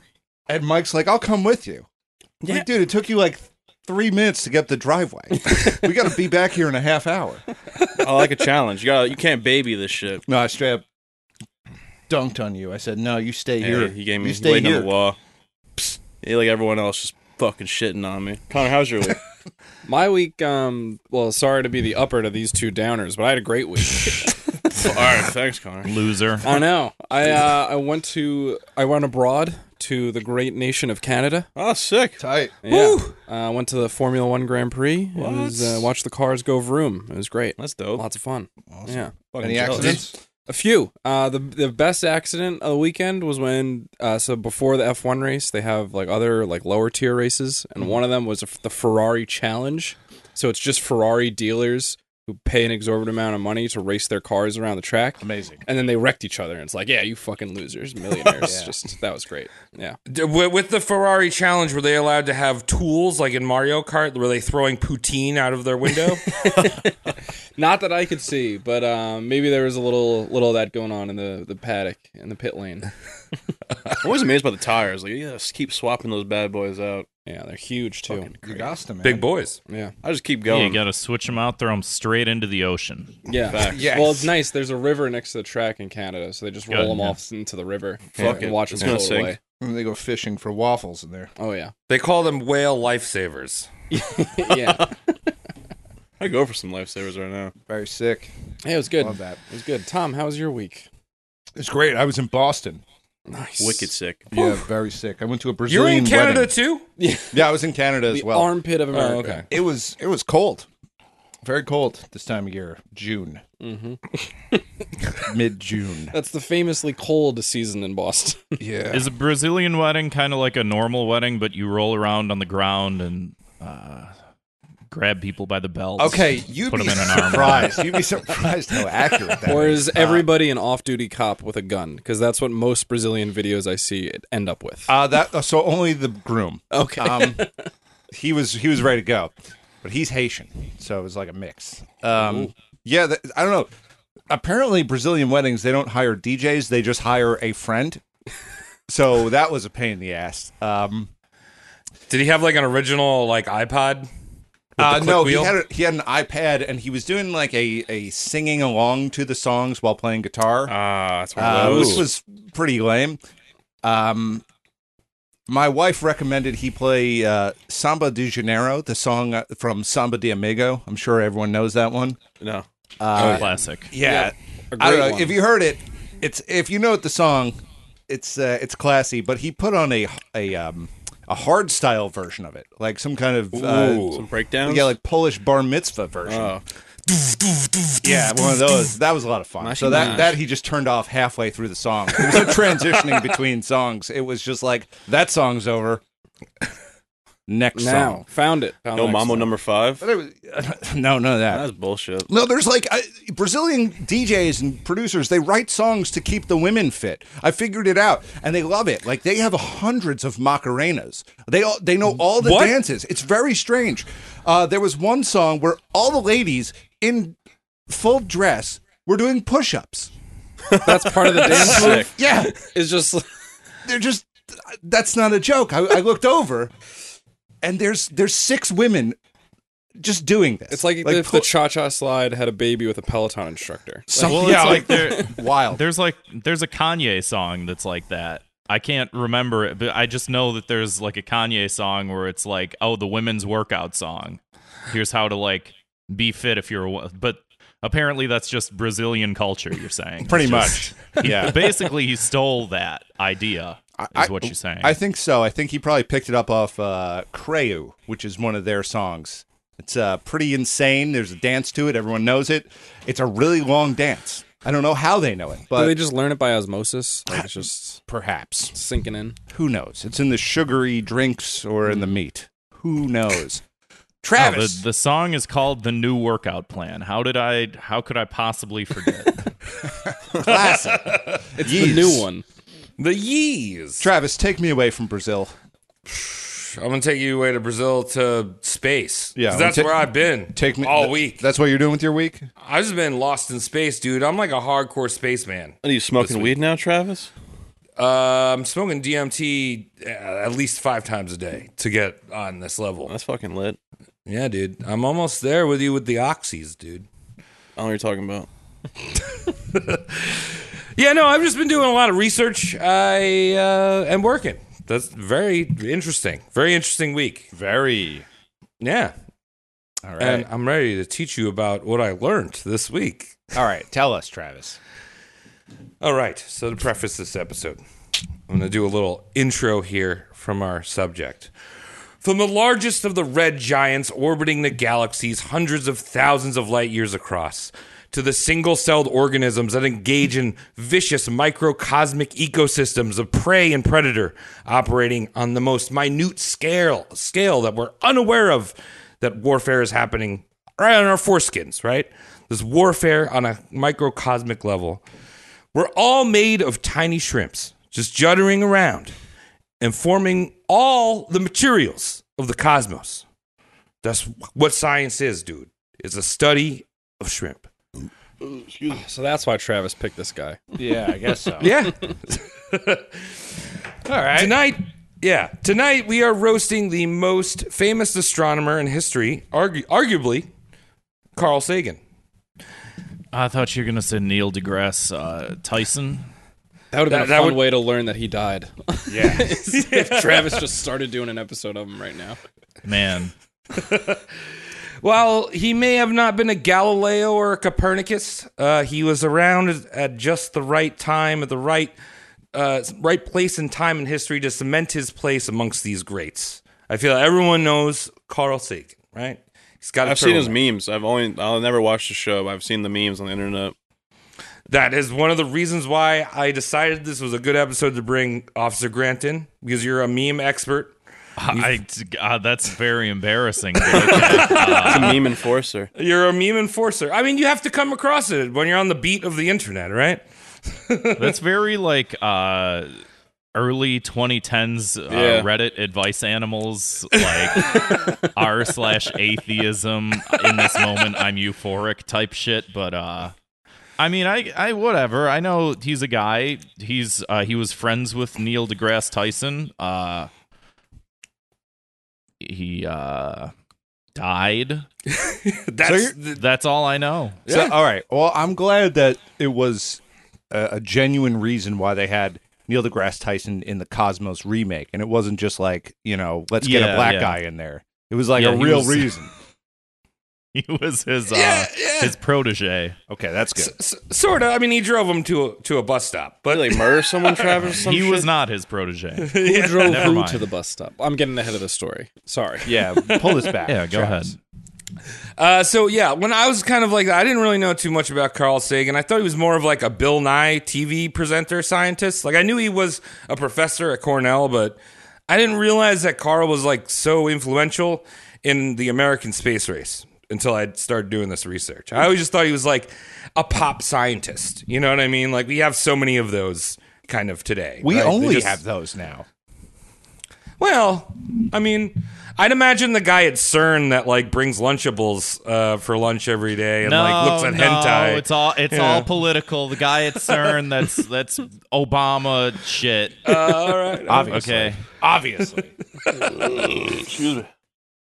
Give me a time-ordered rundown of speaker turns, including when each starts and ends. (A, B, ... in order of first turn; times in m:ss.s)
0:00.5-0:01.8 A
0:02.4-0:07.4 A
0:08.0-0:10.2 B
0:10.3-0:10.8 A
0:12.1-0:14.9 A
0:13.6-0:15.2 B
0:16.2-0:19.2 B
0:19.8-0:24.3 C
0:24.8-0:26.0 B
0:25.8-0:26.5 D
0:26.4-0:31.5 C
0:31.6-0:32.2 B
0:32.2-0:32.6 A
0:32.6-0:39.1 C
0:32.7-0:33.1 E
0:35.1-0:35.8 B
0:37.6-0:38.0 B
0:38.7-0:40.1 A
0:39.3-0:40.0 B
0:39.7-1:00.0 C
0:55.2-0:55.6 A
0:58.4-0:58.7 A
1:00.1-1:06.4 E
1:07.6-1:12.9 C
1:14.0-1:17.1 B
1:17.2-1:18.3 C
1:18.3-1:19.3 A
1:19.0-1:19.6 E
1:19.7-1:19.9 C
1:20.0-1:20.8 B
1:20.5-1:23.2 D
1:23.2-1:29.4 C
1:23.5-1:23.9 B
1:23.7-1:24.3 A
1:26.7-1:27.2 D
1:28.2-1:29.4 B
1:28.2-1:28.8 A
1:29.6-1:31.3 A
1:31.4-1:31.7 C
1:31.9-1:33.7 E
1:33.9-1:34.9 C
1:34.4-1:34.9 B
1:36.2-1:37.5 B
1:37.7-1:38.3 A
1:38.6-1:40.9 C
1:39.0-1:39.4 A
1:41.6-1:42.8 A
1:43.3-1:43.9 C
1:43.6-1:44.3 B
1:44.3-1:46.5 A
1:45.7-1:46.8 E
1:47.0-1:47.5 C
1:47.3-1:48.6 A
1:48.1-1:49.4 C
1:48.9-1:49.4 E
1:49.5-1:50.7 A
1:51.4-1:53.4 A
1:53.6-1:54.0 C
1:55.1-1:56.1 A
1:56.1-1:58.6 C
1:58.6-1:59.1 A
1:58.9-2:04.1 D
2:04.9-2:08.0 D
2:06.0-2:10.3 A
2:09.4-2:14.9 C
2:14.9-2:17.4 A
2:16.7-2:17.7 C
2:18.1-2:23.7 A
2:24.3-2:28.0 A
2:28.9-2:31.1 A
2:32.1-2:34.1 E
2:34.8-2:35.5 E
2:34.8-2:40.7 A
2:40.7-2:42.1 B
2:41.3-2:43.2 A
2:41.4-2:42.0 E
2:43.8-2:44.4 A
2:45.5-2:52.2 A
2:52.4-2:52.6 B
2:53.0-3:06.5 A
2:53.2-2:53.5 E
2:53.2-2:53.9 D
2:54.0-2:55.4 C
3:03.5-3:04.2 E
3:04.0-3:04.9 B
3:06.2-3:06.6 B
3:08.0-3:16.0 A
3:09.6-3:10.4 B
3:17.5-3:18.2 A
3:17.7-3:19.5 C
3:18.9-3:20.0 B
3:20.0-3:21.7 A
3:21.5-3:22.3 B
3:22.2-3:37.4 A
3:32.3-3:32.8 E
3:37.9-3:40.1 A
3:40.8-3:43.2 C
3:41.4-3:42.1 B
3:41.4-3:41.9 E
3:41.7-3:42.6 A
3:43.8-3:46.7 A
3:47.6-3:49.2 A
3:50.0-3:51.5 A
3:50.7-3:54.1 C
3:54.1-3:55.8 A
3:54.2-4:15.0 D
4:10.2-4:11.8 A
4:14.0-4:26.0 A
4:25.7-4:28.0 C
4:28.1-4:28.7 A
4:28.7-4:29.4 C
4:29.5-4:33.6 A
4:34.2-4:34.8 A
4:34.4-4:39.5 D
4:40.1-4:42.2 A
4:40.4-4:41.4 E
4:41.6-4:42.4 C
4:43.0-4:44.0 E
4:44.0-4:45.5 A
4:46.1-4:51.4 E
4:49.4-4:52.5 A
4:52.6-4:56.5 E
4:55.8-4:57.3 B
4:58.0-5:03.1 E
5:03.1-5:03.8 B
5:04.3-5:07.1 E
5:07.8-5:08.5 B
5:09.7-5:17.5 E
5:17.5-5:18.2 A
5:18.8-5:19.1 E
5:20.0-5:20.5 A
5:20.2-5:23.5 E
5:23.5-5:24.8 A
5:26.0-5:27.8 E
5:28.5-5:31.5 E
5:32.2-5:55.0 E
5:55.7-5:59.1 E
5:59.8-6:03.2 E
6:04.0-6:07.7 E
6:08.4-6:09.0 B
6:08.9-6:10.6 C
6:10.8-6:11.8 A
6:11.6-6:13.2 E
6:14.0-6:14.6 A
6:14.3-6:20.5 E
6:21.4-6:22.0 E
6:23.3-6:26.3 D
6:26.9-6:32.4 C
6:27.1-6:27.7 E
6:29.1-6:29.5 A
6:29.7-6:30.7 E
6:32.8-6:33.3 D
6:33.7-6:34.2 E
6:35.0-6:41.9 E
6:42.5-6:50.6 E
6:50.0-6:53.7 B
6:54.7-7:01.0 E
7:01.4-7:05.2 D
7:03.8-7:05.2 E
7:04.3-7:05.9 B
7:05.9-7:10.2 E
7:10.7-7:11.4 E
7:11.2-7:13.0 D
7:13.5-7:23.3 D
7:15.1-7:15.5 B
7:24.0-7:30.3 D
7:32.4-7:33.5 D
7:34.1-7:34.8 D
7:35.1-7:36.4 E
7:35.8-7:36.1 A
7:36.3-7:37.4 D
7:37.5-7:37.7 E
7:37.5-7:49.3 A
7:46.6-7:47.4 D
7:48.3-7:49.2 D
7:50.5-7:53.0 D
7:51.3-7:52.1 E
7:53.1-7:53.7 A
7:53.6-7:57.9 E
7:56.5-7:58.3 B
7:57.7-8:00.4 D
7:59.2-8:00.1 E
7:59.4-8:02.7 C
8:02.6-8:04.3 A
8:03.1-8:03.6 E
8:03.6-8:04.4 D
8:05.4-8:28.6 E
8:27.8-8:29.2 A
8:30.6-8:39.1 E
8:36.8-8:43.4 D
8:43.2-8:44.4 E
8:44.0-8:45.7 A
8:44.3-8:44.8 D
8:46.2-8:47.5 B